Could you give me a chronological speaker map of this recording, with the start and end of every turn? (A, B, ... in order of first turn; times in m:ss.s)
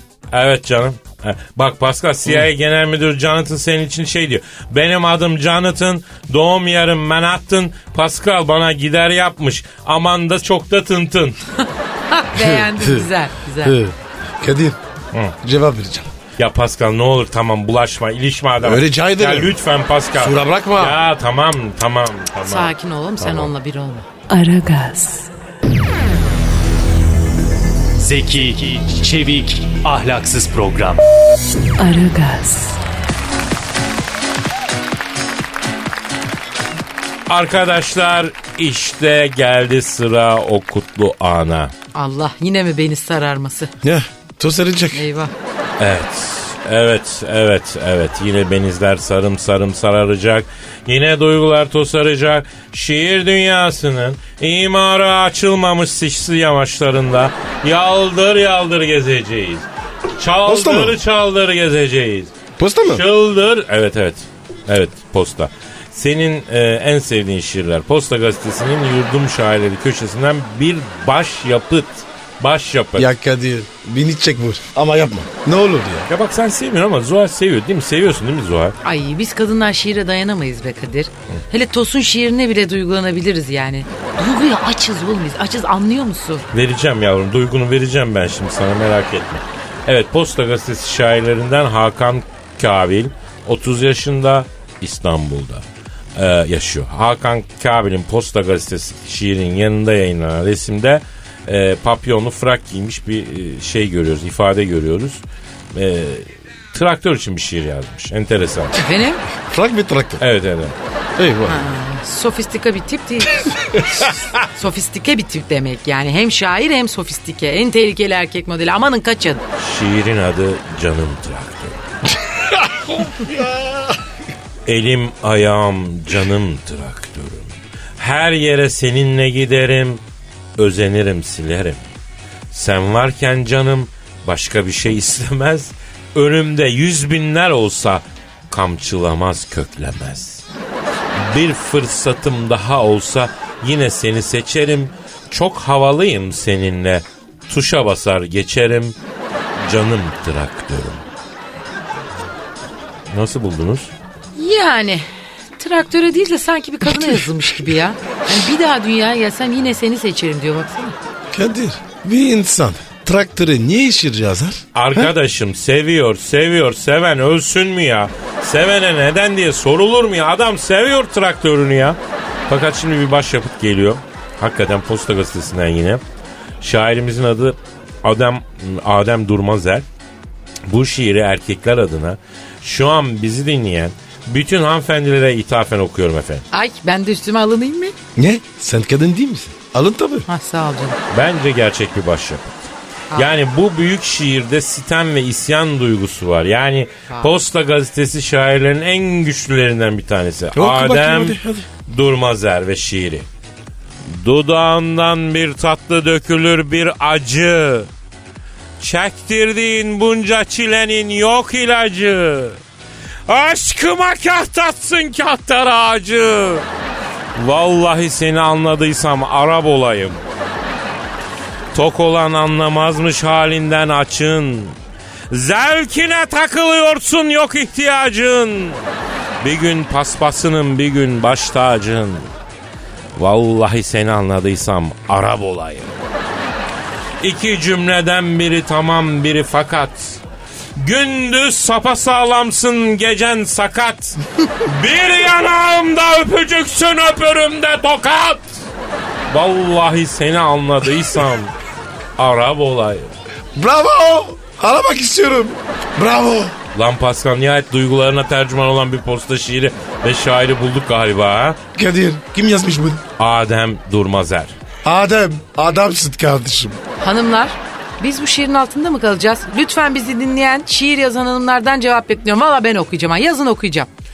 0:00.3-0:11.4 A
0:12.1-0:13.8 B
0:12.3-0:13.1 C
0:13.6-0:14.8 C
0:15.4-0:16.1 C
0:16.4-0:23.5 A
0:18.6-0:19.6 C
0:20.1-0:21.0 C
0:22.4-0:24.0 B
0:24.3-0:25.3 D
0:28.0-0:31.0 E
0:31.8-0:32.8 D
0:37.3-0:41.7 A
0:41.9-0:43.7 B
0:43.8-0:45.0 C
0:44.9-0:45.3 B
0:45.8-1:02.3 A
1:00.4-1:01.0 C
1:02.6-1:03.0 C
1:02.8-1:13.1 A
1:13.0-1:16.1 C
1:16.1-1:18.8 A
1:18.8-1:26.4 B
1:26.5-1:35.6 A
1:36.2-1:45.2 A
1:45.7-1:48.8 A
1:48.8-1:49.2 B
1:49.4-1:50.2 C
1:50.2-1:50.7 A
1:51.2-1:51.7 C
1:51.5-1:53.8 B
1:54.4-1:59.4 B
1:59.6-2:01.8 A
2:02.5-2:04.0 C
2:04.6-2:10.0 A
2:10.6-2:11.8 A
2:12.5-2:20.4 A
2:21.1-2:28.9 A
2:29.6-2:31.0 A
2:33.1-2:33.9 A
2:34.4-2:35.0 B
2:35.6-2:41.0 B
2:41.3-2:45.1 C
2:44.7-2:52.0 A
2:52.5-2:56.0 A
2:56.6-2:59.8 A
3:00.7-3:06.4 A
3:06.5-3:07.9 B
3:08.2-3:10.2 C
3:10.3-3:11.0 B
3:11.1-3:12.5 A
3:13.1-3:23.2 A
3:20.5-3:21.7 C
3:24.1-3:27.9 A
3:28.8-3:32.6 A
3:33.3-3:36.6 A
3:37.4-3:40.2 A
3:41.7-3:44.8 A
3:45.3-3:48.8 A
3:49.4-3:52.3 A
3:53.2-3:56.0 A
3:57.2-4:00.2 A
4:00.8-4:08.5 A
4:09.3-4:11.5 A
4:12.2-4:13.1 A
4:13.5-4:16.5 C
4:16.7-4:21.6 A
4:21.7-4:23.0 C
4:23.2-4:24.5 A
4:24.8-4:26.8 C
4:27.0-4:33.9 B